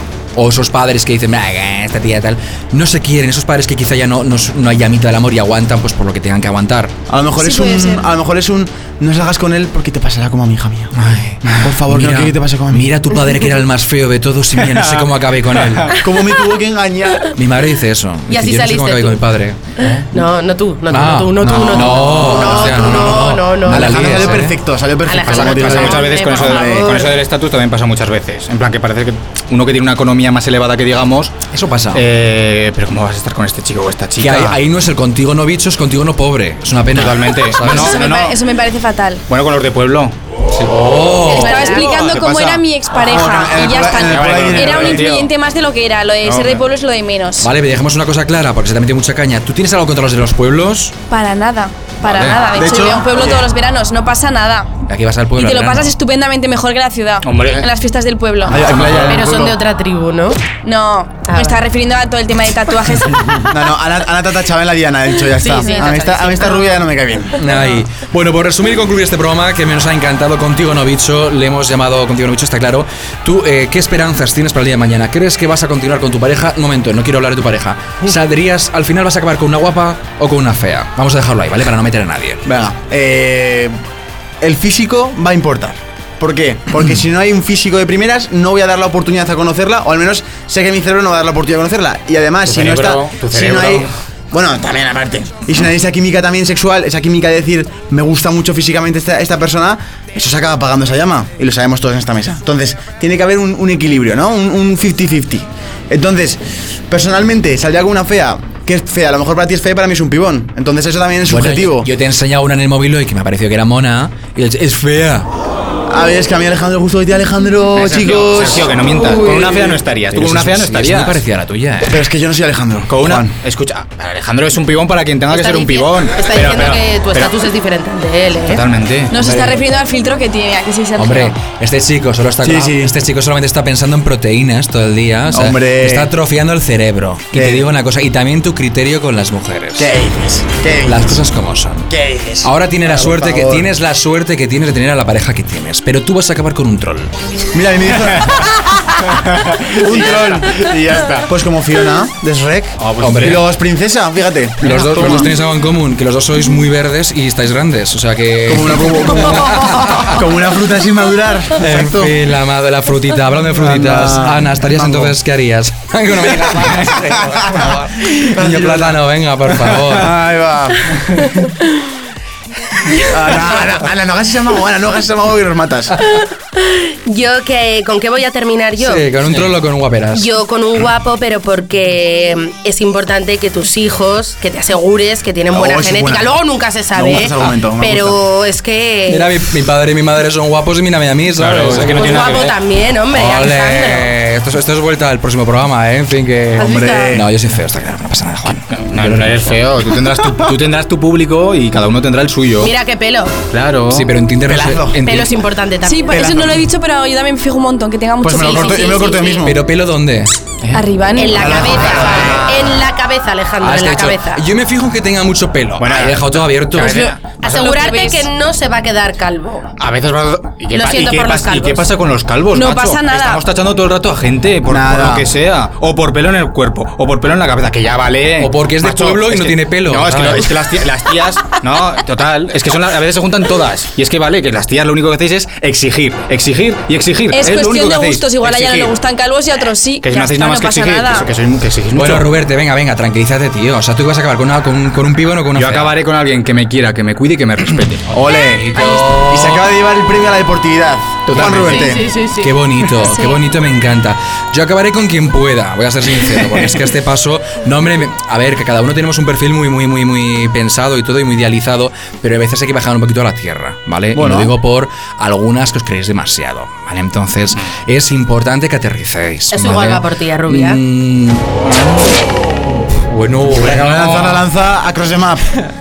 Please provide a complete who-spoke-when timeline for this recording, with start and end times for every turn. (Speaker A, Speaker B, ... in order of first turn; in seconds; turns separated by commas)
Speaker A: 0.3-6.9, Speaker B: 7.1-10.9, Speaker C: 7.4-8.1, Speaker A: 10.9-15.9, Speaker B: 11.6-12.9, Speaker B: 16.0-17.3, Speaker A: 17.4-20.0, Speaker D: 18.3-19.2, Speaker D: 19.8-24.4, Speaker A: 20.9-24.5, Speaker B: 21.4-27.0, Speaker D: 25.1-27.1, Speaker E: 25.2-31.4, Speaker A: 31.5-32.0, Speaker E: 31.9-34.6, Speaker A: 34.2-38.0, Speaker E: 36.9-38.4, Speaker C: 37.6-39.2, Speaker E: 39.3-40.2, Speaker A: 40.5-41.7, Speaker D: 41.3-42.0, Speaker C: 41.3-47.5, Speaker E: 41.8-42.6, Speaker B: 43.0-45.2, Speaker E: 43.9-45.3, Speaker E: 46.2-46.6, Speaker A: 47.4-50.9, Speaker C: 51.1-54.7, Speaker A: 52.1-52.4, Speaker B: 52.5-53.4, Speaker A: 54.9-55.9, Speaker C: 55.4-58.7, Speaker E: 57.2-57.7, Speaker B: 58.4-59.5, Speaker E: 58.8-59.1, Speaker D: 59.0-60.5, Speaker C: 60.6-63.3, Speaker D: 61.3-61.6, Speaker B: 63.4-67.4, Speaker D: 65.4-66.8, Speaker C: 65.5-66.0, Speaker A: 67.3-82.4, Speaker B: 82.5-83.8, Speaker B: 84.4-111.9, Speaker E: 92.5-93.9, Speaker A: 111.3-115.3, Speaker B: 115.9-119.8, Speaker E: 117.8-121.2, Speaker A: 120.1-122.0, Speaker B: 121.8-123.3, Speaker E: 122.9-127.3, Speaker D: 125.3-128.6, Speaker E: 128.4-129.1, Speaker C: 129.1-131.4, Speaker B: 129.2-129.5, Speaker A: 130.9-139.9, Speaker B: 132.4-132.9, Speaker B: 135.3-136.1, Speaker B: 137.3-137.7, Speaker B: 139.8-141.2, Speaker A: 140.8-141.9, Speaker B: 141.9-143.7, Speaker A: 142.4-147.1, Speaker B: 147.5-148.6, Speaker B: 149.7-155.3, Speaker E: 152.8-153.4, Speaker A: 153.0-153.4, Speaker A: 154.6-160.1, Speaker B: 158.5-162.1, Speaker A: 161.6-170.1, Speaker B: 163.6-165.1, Speaker B: 166.4-168.9, Speaker B: 169.8-171.0, Speaker B: 173.0-175.9, Speaker D: 176.6-179.1, Speaker A: 178.8-180.3, Speaker D: 180.1-189.4, Speaker B: 185.5-186.3, Speaker B: 186.9-188.2, Speaker A: 189.1-192.4, Speaker E: 191.3-192.6, Speaker D: 191.9-194.1, Speaker A: 193.1-199.5, Speaker B: 196.5-197.2, Speaker D: 196.6-197.2, Speaker E: 198.7-202.7, Speaker D: 202.6-203.3, Speaker E: 203.5-204.1, Speaker A: 203.9-205.3, Speaker B: 204.5-205.0, Speaker D: 205.0-206.5, Speaker C: 205.8-209.4, Speaker B: 206.1-206.5, Speaker B: 208.2-209.6, Speaker A: 209.4-210.3, Speaker C: 210.7-211.5, Speaker D: 211.2-214.4, Speaker B: 211.3-212.5, Speaker E: 212.1-212.6, Speaker A: 213.6-217.0, Speaker E: 215.8-217.7, Speaker D: 216.8-219.7, Speaker C: 217.6-218.2, Speaker E: 219.8-238.9, Speaker D: 220.7-221.9, Speaker C: 222.5-223.4, Speaker B: 224.7-225.3, Speaker A: 228.4-230.5, Speaker C: 237.3-241.3, Speaker E: 240.0-242.3, Speaker A: 241.9-245.9, Speaker E: 245.6-248.1, Speaker B: 248.1-252.0, Speaker A: 248.3-249.7, Speaker E: 251.3-251.9, Speaker A: 251.4-251.9, Speaker D: 251.7-253.3, Speaker A: 252.4-272.1, Speaker B: 264.1-264.5, Speaker D: 269.5-270.8, Speaker A: 272.9-274.1, Speaker B: 273.5-275.4, Speaker E: 273.8-274.4